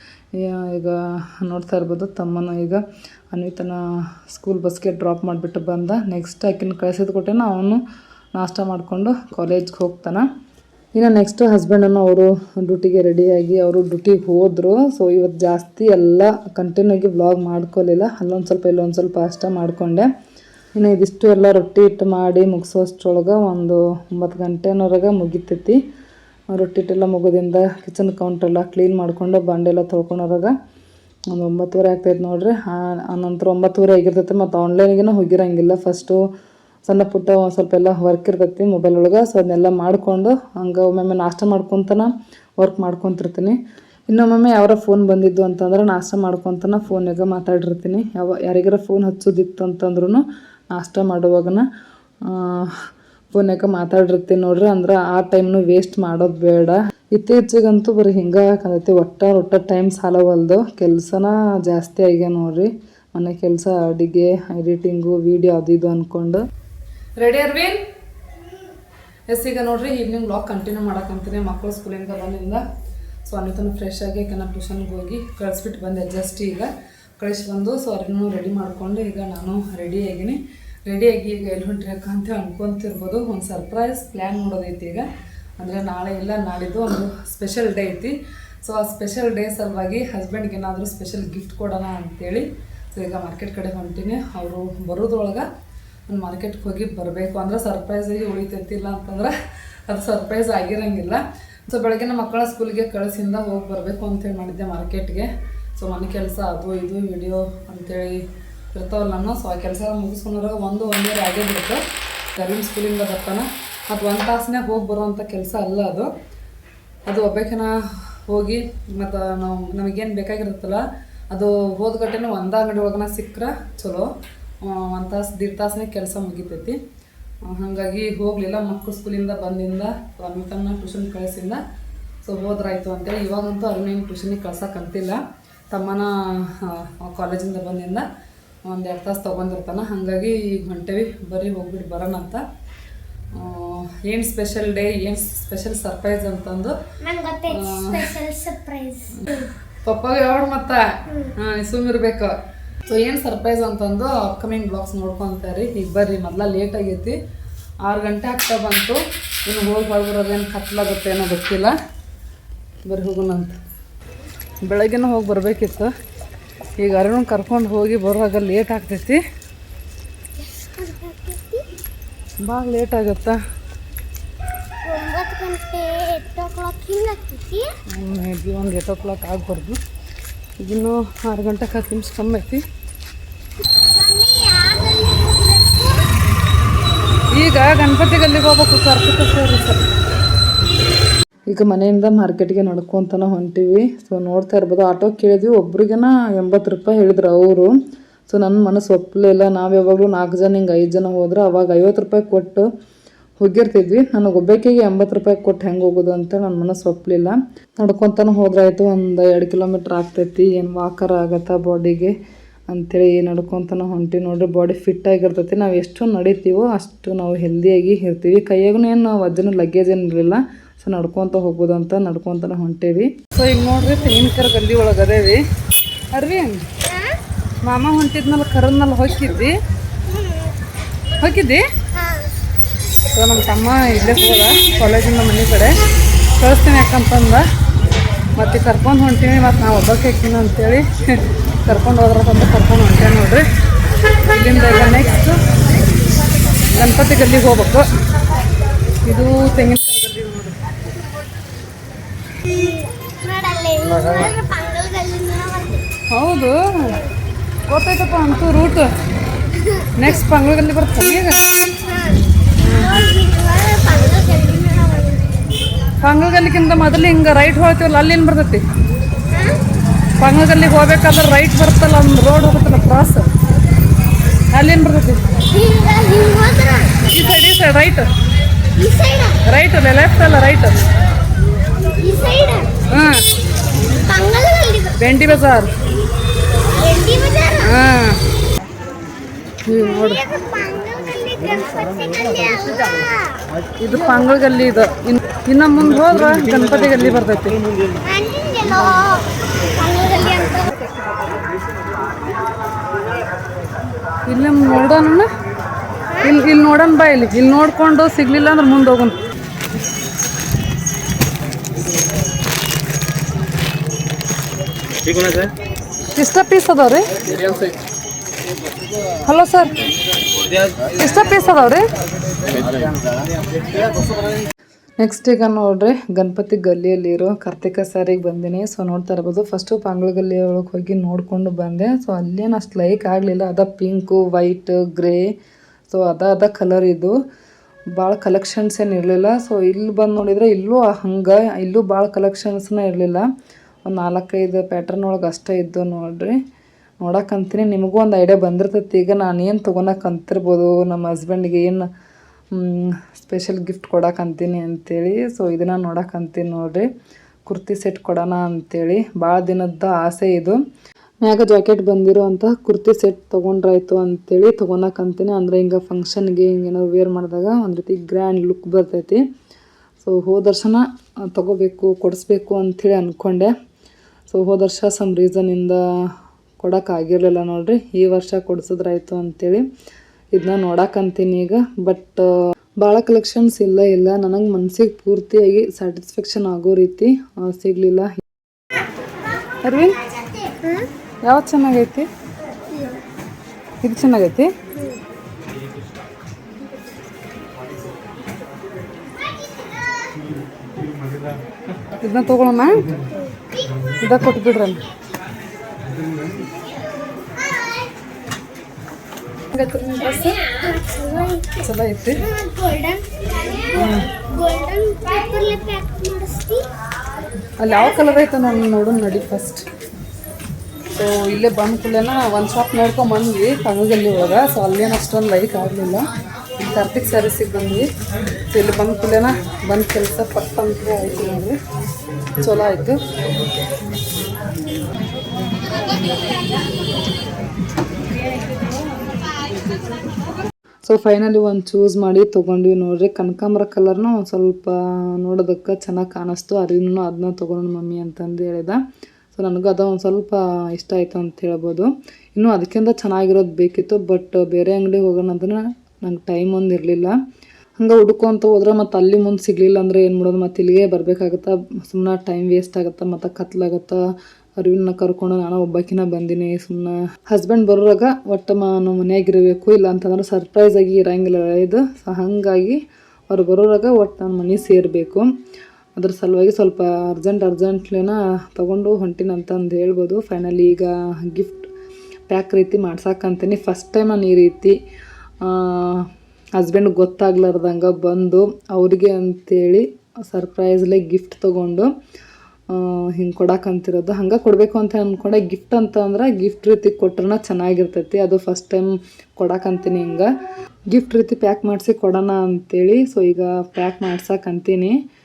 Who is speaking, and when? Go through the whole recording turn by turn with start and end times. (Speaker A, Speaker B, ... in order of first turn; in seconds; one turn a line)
Speaker A: 0.3-7.8
Speaker A: 8.3-10.2
Speaker A: 10.9-20.1
Speaker A: 20.8-25.8
Speaker A: 26.5-30.5
Speaker A: 31.3-36.2
Speaker A: 36.8-43.6
Speaker A: 44.1-51.6
Speaker A: 52.2-52.8
Speaker A: 53.3-66.4
Speaker A: 67.2-67.8
Speaker A: 69.3-72.6
Speaker A: 73.2-85.1
Speaker A: 85.6-95.5
Speaker A: 96.1-99.3
Speaker A: 99.9-116.1
Speaker A: 117.0-124.1
Speaker A: 124.6-126.8
Speaker A: 127.5-131.6
Speaker A: 132.2-138.1
Speaker A: 138.7-142.4
Speaker A: 143.3-146.8
Speaker B: 147.0-149.5
Speaker A: 147.5-148.2
Speaker A: 149.2-152.3
Speaker A: 152.8-157.2
Speaker A: 157.8-161.7
Speaker A: 162.8-163.6
Speaker A: 164.7-165.9
Speaker A: 166.8-169.2
Speaker B: 170.4-171.7
Speaker A: 172.4-173.4
Speaker B: 174.8-177.7
Speaker A: 177.9-179.8
Speaker A: 180.6-182.6
Speaker B: 183.7-186.2
Speaker A: 187.3-189.8
Speaker A: 191.5-197.7
Speaker A: 198.3-202.7
Speaker A: 203.4-212.1
Speaker A: 212.7-225.4
Speaker A: 226.1-226.7
Speaker B: 226.8-227.2
Speaker A: 227.6-229.6
Speaker A: 231.2-231.7
Speaker A: 233.1-235.8
Speaker A: 236.4-237.4
Speaker A: 238.4-243.4
Speaker A: 244.3-245.4
Speaker A: 246.7-247.9
Speaker A: 249.0-250.6
Speaker B: 252.4-255.9
Speaker A: 256.1-256.9
Speaker A: 257.7-258.9
Speaker B: 259.6-260.1
Speaker A: 259.9-261.4
Speaker B: 261.9-265.6
Speaker A: 262.6-263.0
Speaker A: 266.0-268.7
Speaker B: 269.3-269.6
Speaker A: 270.2-273.3
Speaker A: 274.5-275.4
Speaker B: 275.5-277.3
Speaker A: 277.0-278.1
Speaker B: 278.7-279.4
Speaker A: 279.4-280.8
Speaker B: 281.6-282.8
Speaker A: 282.9-283.2
Speaker B: 283.8-285.2
Speaker A: 285.0-285.8
Speaker B: 286.7-287.8
Speaker A: 287.6-288.2
Speaker A: 289.6-290.2
Speaker B: 289.9-293.4
Speaker A: 293.8-297.6
Speaker B: 298.0-300.9
Speaker A: 304.2-305.3
Speaker A: 306.2-309.2
Speaker A: 316.1-317.7
Speaker A: 319.2-319.9
Speaker A: 320.9-321.9
Speaker A: 325.0-335.3
Speaker A: 335.9-337.1
Speaker A: 337.9-343.2
Speaker A: 343.8-346.4
Speaker A: 347.0-351.9
Speaker A: 352.5-356.9
Speaker A: 357.4-360.6
Speaker A: 361.2-369.2
Speaker A: 370.0-373.5
Speaker A: 374.3-375.8
Speaker A: 376.6-379.6
Speaker A: 380.3-382.3
Speaker A: 382.8-388.1
Speaker A: 389.6-390.0
Speaker B: 390.4-390.9
Speaker A: 391.2-392.1
Speaker B: 392.7-393.0
Speaker A: 393.8-394.5
Speaker A: 402.0-402.9
Speaker A: 404.0-404.8
Speaker A: 409.5-410.5
Speaker B: 410.1-411.6
Speaker A: 411.5-412.3
Speaker B: 412.2-416.7
Speaker A: 413.7-414.1
Speaker A: 417.6-419.6
Speaker A: 420.9-427.9
Speaker A: 428.5-431.6
Speaker A: 432.4-433.1
Speaker A: 440.8-448.8
Speaker A: 449.3-457.1
Speaker A: 457.8-464.0
Speaker A: 464.6-472.8
Speaker A: 473.3-475.2
Speaker A: 475.9-481.7
Speaker A: 482.3-484.7
Speaker A: 485.4-491.9
Speaker A: 492.7-500.3
Speaker A: 500.9-504.9